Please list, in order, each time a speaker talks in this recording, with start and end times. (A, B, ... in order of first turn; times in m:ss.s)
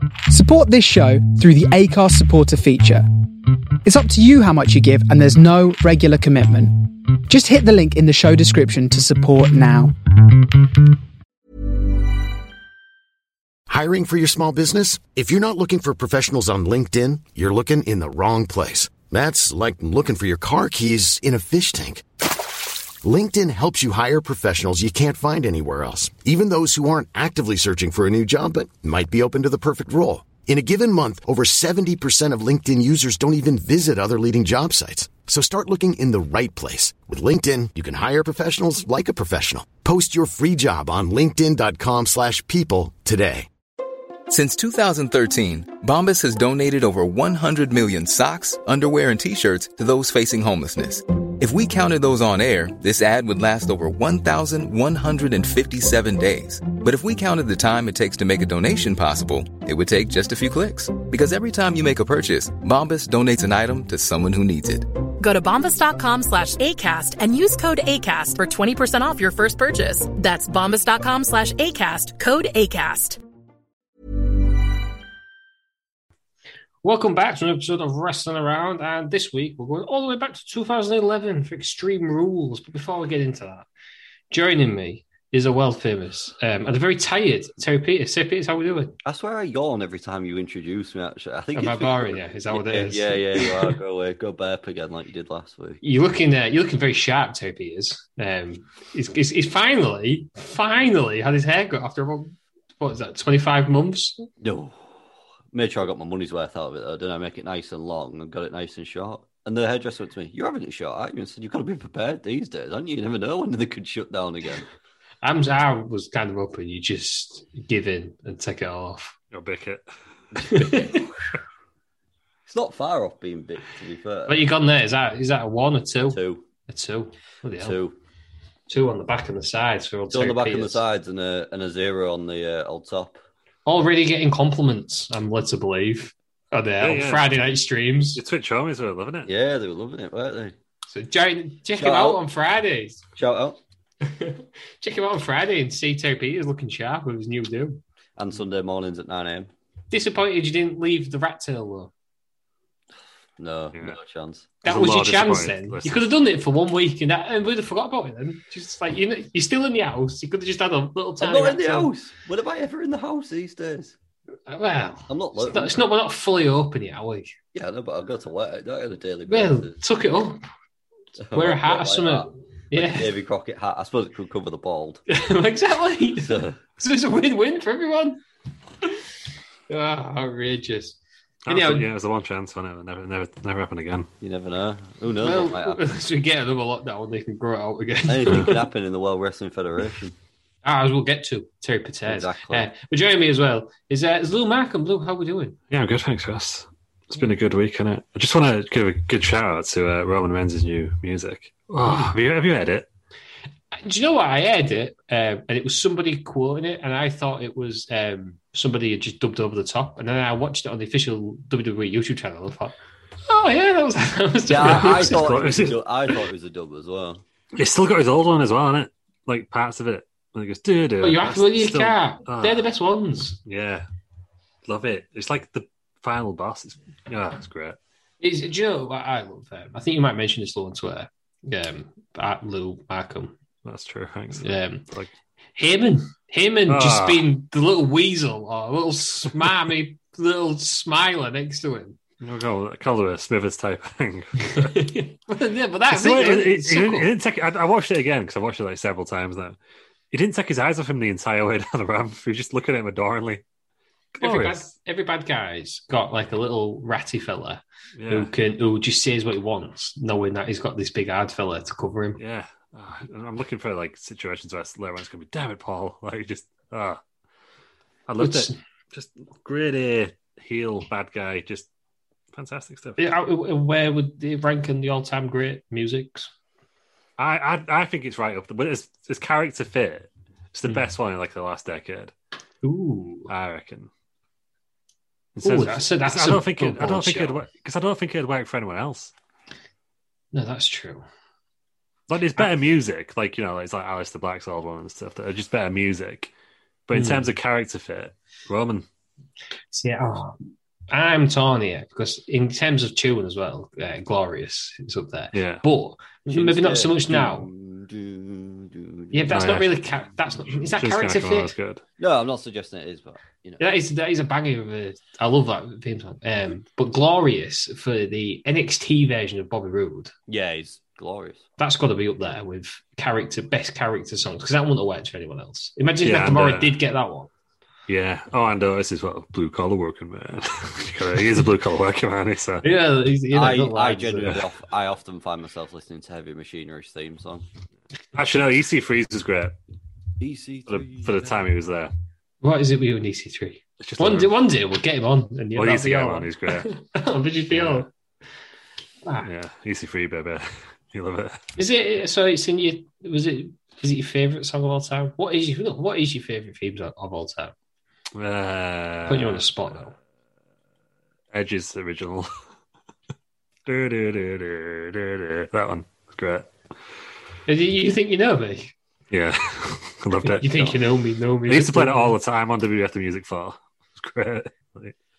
0:00.3-0:03.0 A
0:03.8-0:09.9 A
0:13.7-0:22.1 B
0:23.0-0:43.5 B
0:44.3-1:04.9 C
1:05.2-1:13.2 D
1:16.8-1:23.7 E
1:24.3-1:29.0 E
1:29.0-1:35.8 F
1:31.5-1:33.7 E
1:35.8-1:44.2 E
1:44.4-1:45.0 F
1:45.5-1:54.6 F
1:55.2-1:59.1 E
1:59.3-1:59.8 G
2:00.4-2:01.0 F
2:00.4-2:01.1 E
2:02.4-2:04.4 F
2:04.3-2:07.8 E
2:06.1-2:06.4 F
2:07.6-2:07.9 F
2:08.7-2:10.8 E
2:10.1-2:13.2 F
2:13.6-2:18.2 E
2:16.8-2:17.3 G
2:18.2-2:19.3 G
2:19.2-2:20.5 F
2:20.9-2:23.0 E
2:21.7-2:22.2 F
2:23.2-2:23.6 F
2:24.0-2:27.8 E
2:28.2-2:29.5 F
2:29.9-2:31.9 E
2:33.4-2:34.5 F
2:34.6-2:36.1 G
2:34.6-2:41.9 E
2:41.2-2:43.9 F
2:44.5-2:47.3 E
2:45.1-2:45.8 F
2:47.5-2:49.7 F
2:49.3-2:50.4 E
2:51.2-2:55.0 F
2:51.3-2:53.1 E
2:55.1-2:58.2 E
2:56.2-2:56.6 F
2:59.7-3:01.0 E
3:01.4-3:04.1 G
3:01.5-3:01.9 E
3:04.2-3:05.8 F
3:05.2-3:08.6 E
3:08.1-3:10.1 F
3:10.6-3:15.6 E
3:12.1-3:12.7 F
3:15.7-3:22.9 G
3:23.8-3:32.7 E
3:33.3-3:35.7 E
3:34.4-3:37.2 F
3:34.6-3:35.7 G
3:37.6-3:42.6 G
3:41.0-3:43.4 E
3:43.4-3:43.8 G
3:44.7-3:47.8 G
3:48.2-3:53.4 E
3:53.6-3:55.1 G
3:54.4-3:54.8 E
3:55.6-4:02.0 E
3:56.7-3:57.3 G
4:02.2-4:04.8 G
4:04.4-4:07.1 E
4:05.9-4:09.6 G
4:10.1-4:13.4 G
4:14.1-4:14.7 G
4:14.2-4:22.2 E
4:18.0-4:18.3 G
4:22.2-4:27.0 G
4:28.1-4:31.7 G
4:28.2-4:28.6 E
4:32.3-4:33.0 G
4:33.0-4:36.3 E
4:37.2-4:42.1 G
4:42.6-4:43.3 E
4:43.3-4:43.9 G
4:45.4-4:49.1 G
4:45.4-4:47.4 E
4:50.3-4:51.0 E
4:52.1-4:56.3 G
4:56.9-4:58.8 G
4:56.9-4:57.3 E
4:59.7-5:07.4 E
5:05.3-5:05.6 G
5:06.3-5:09.6 F
5:09.1-5:11.5 E
5:09.3-5:09.7 G
5:10.8-5:11.8 G
5:12.0-5:13.6 F
5:13.6-5:20.1 E
5:20.3-5:21.4 F
5:21.6-5:27.3 E
5:26.0-5:26.8 G
5:27.9-5:32.6 G
5:32.6-5:34.3 E
5:33.3-5:37.4 F
5:38.1-5:39.6 G
5:40.2-5:41.5 F
5:40.7-5:41.9 G
5:42.4-5:47.9 E
5:43.8-5:44.3 G
5:45.6-5:46.7 G
5:47.5-5:47.8 G
5:49.2-5:51.5 G
5:51.6-5:57.5 E
5:58.1-5:59.8 G
5:59.1-5:59.9 E
6:01.3-6:02.3 G
6:03.7-6:06.5 G
6:07.5-6:08.7 E
6:09.1-6:10.7 G
6:10.2-6:12.2 E
6:11.5-6:14.9 G